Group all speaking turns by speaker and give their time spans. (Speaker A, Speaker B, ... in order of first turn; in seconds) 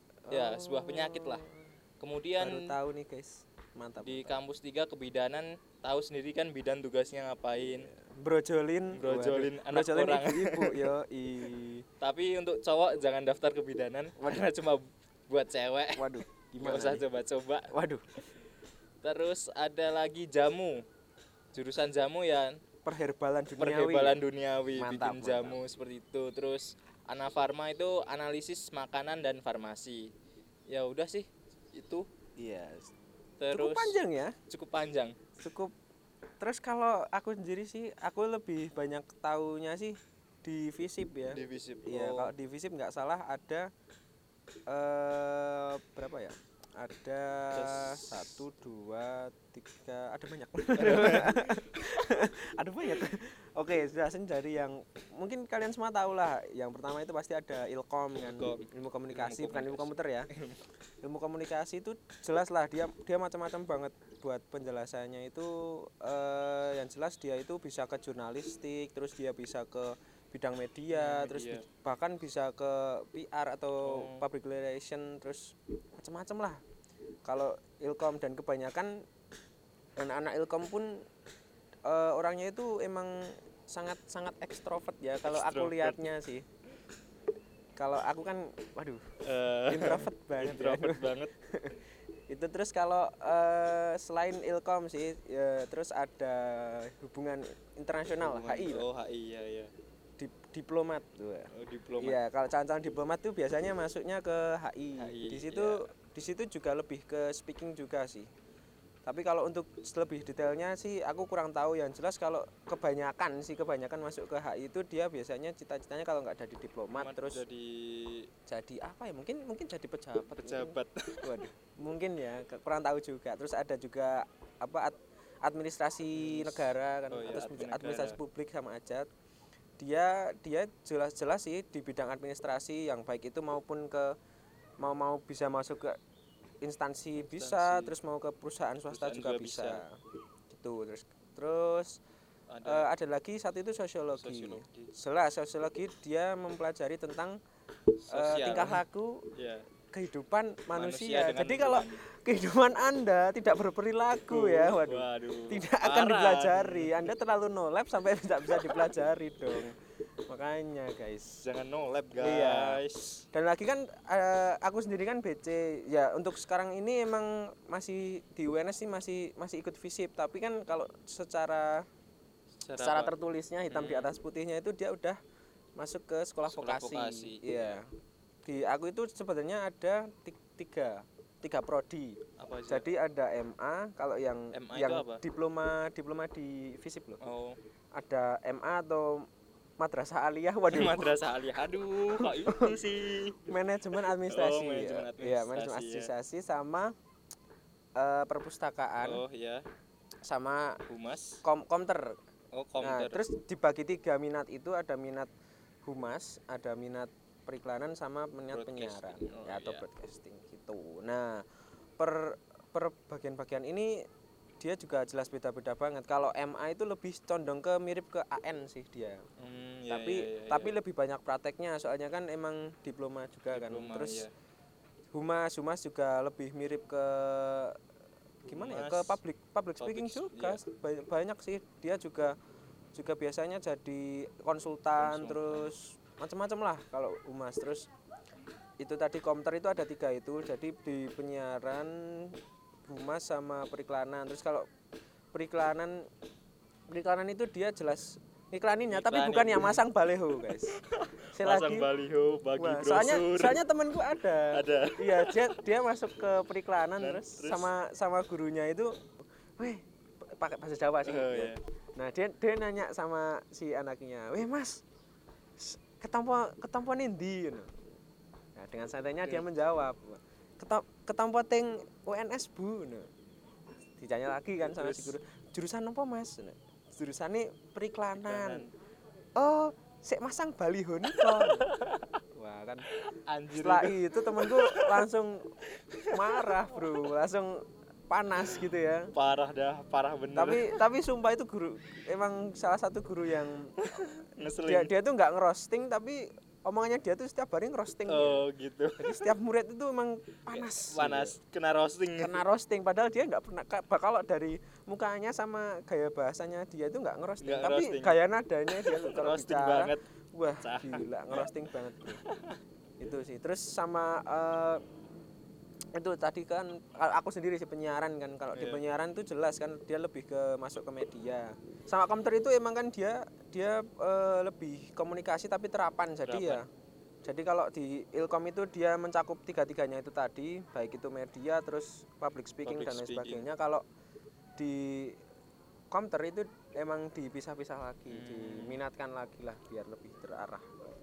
Speaker A: 0.2-1.7, 2.4-4.4, 7.8-11.8, 14.2-14.4, 15.9-17.0, 17.7-18.0, 22.8-24.2, 24.7-25.6, 32.4-32.9, 33.5-34.3, 35.4-35.7, 36.4-43.7, 44.7-60.3, 61.0-76.6, 77.2-79.0, 80.0-81.0, 81.8-86.5, 87.8-89.0, 89.7-98.8, 100.2-108.3, 109.0-117.4, 118.5-129.1, 129.8-134.1, 134.8-136.0, 136.6-140.0, 140.5-142.0, 142.6-147.4, 148.1-149.3, 149.9-159.8, 160.3-161.4, 162.2-171.8, 172.8-175.2, 175.8-177.9, 178.4-187.2, 187.9-189.2, 189.8-191.2, 192.1-192.8, 193.4-196.9, 198.0-199.2, 200.2-200.8, 201.4-202.1, 202.8-205.3, 205.8-211.4, 212.0-214.0, 214.6-219.2, 219.9-224.2, 225.1-227.8, 228.4-232.3, 232.9-237.9, 238.8-244.7, 245.3-246.0, 246.9-250.8, 251.3-251.9, 252.6-258.9, 259.6-264.8, 265.6-267.8, 268.6-273.1, 274.0-278.7, 279.4-281.7, 282.3-282.9, 283.5-285.5, 286.1-289.1, 290.3-293.8, 294.6-298.4, 299.0-301.3, 302.2-312.2, 313.0-314.8, 315.9-326.6, 327.2-333.8, 334.6-335.2, 335.9-340.6
Speaker B: 0.3-1.4, 2.0-2.7, 4.0-7.9, 8.9-10.9, 12.0-17.7, 19.0-20.8, 21.5-22.6, 23.6-30.1, 30.7-32.0, 33.4-34.0, 34.5-35.1, 41.3-42.3, 47.5-48.4, 50.8-51.6, 58.2-60.6, 70.9-71.6, 73.8-74.2, 85.2-86.1, 89.2-91.3, 98.2-99.7, 101.5-102.2, 105.0-105.8, 116.9-118.3, 120.4-121.4, 126.2-128.2, 137.2-137.9, 138.9-139.8, 142.5-142.9, 144.1-144.9, 148.0-148.8, 149.3-149.6, 150.7-152.0, 154.3-157.1, 158.5-158.8, 161.4-163.2, 172.6-173.1, 173.7-174.1, 176.5-177.8, 182.4-182.8, 184.5-185.2, 187.2-187.6, 190.7-196.1, 199.0-199.6, 200.9-201.4, 202.5-203.2, 208.5-209.8, 219.4-220.8, 223.5-224.3, 228.5-229.2, 229.8-230.6, 235.0-235.7, 248.9-249.8, 250.4-253.6, 254.5-255.6, 257.0-257.7, 261.0-261.6, 274.6-275.1, 278.2-278.7, 281.1-282.2, 282.9-285.0, 285.8-286.8, 289.1-290.7, 293.8-294.9, 298.1-299.1, 300.5-302.4, 307.4-308.2, 308.7-310.0, 310.6-311.5, 312.0-312.6, 318.5-318.8, 326.2-326.6, 332.6-333.5, 338.1-338.8